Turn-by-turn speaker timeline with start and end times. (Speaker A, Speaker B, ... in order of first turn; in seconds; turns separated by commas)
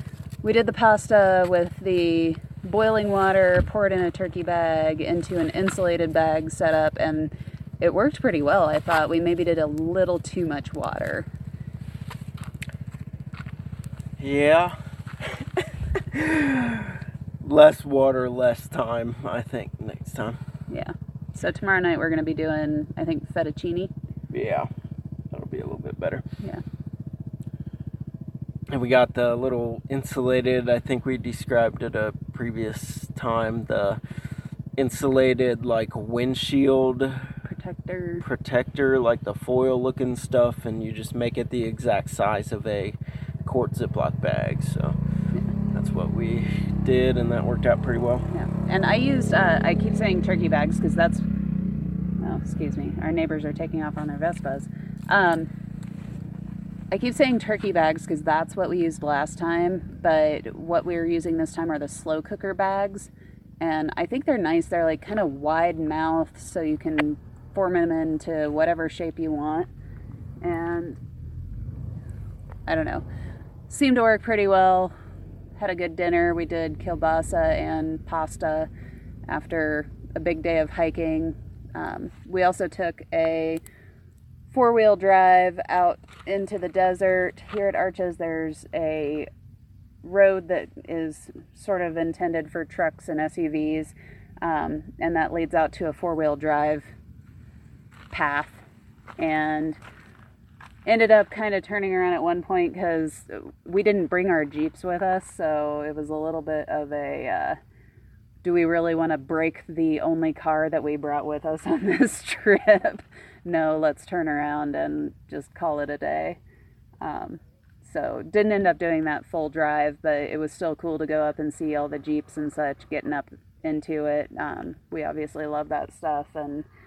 Speaker A: 0.4-11.3, Speaker B: 14.2-14.8, Speaker B: 15.3-20.4, Speaker A: 20.7-23.9, Speaker B: 24.3-24.7, Speaker B: 25.3-26.2, Speaker B: 28.7-34.0, Speaker B: 34.8-37.4, Speaker A: 37.5-38.2, Speaker B: 38.2-45.0, Speaker B: 45.7-48.3, Speaker A: 48.3-51.2, Speaker A: 52.2-55.5, Speaker A: 56.9-63.1, Speaker A: 63.6-69.7, Speaker A: 70.4-71.0, Speaker A: 72.7-73.0, Speaker A: 73.7-74.9, Speaker A: 75.6-78.7, Speaker A: 79.3-83.6, Speaker A: 84.5-89.3, Speaker A: 90.0-96.9, Speaker A: 98.1-98.6, Speaker A: 99.2-99.8, Speaker A: 100.8-107.6, Speaker A: 108.4-116.4, Speaker A: 117.0-126.7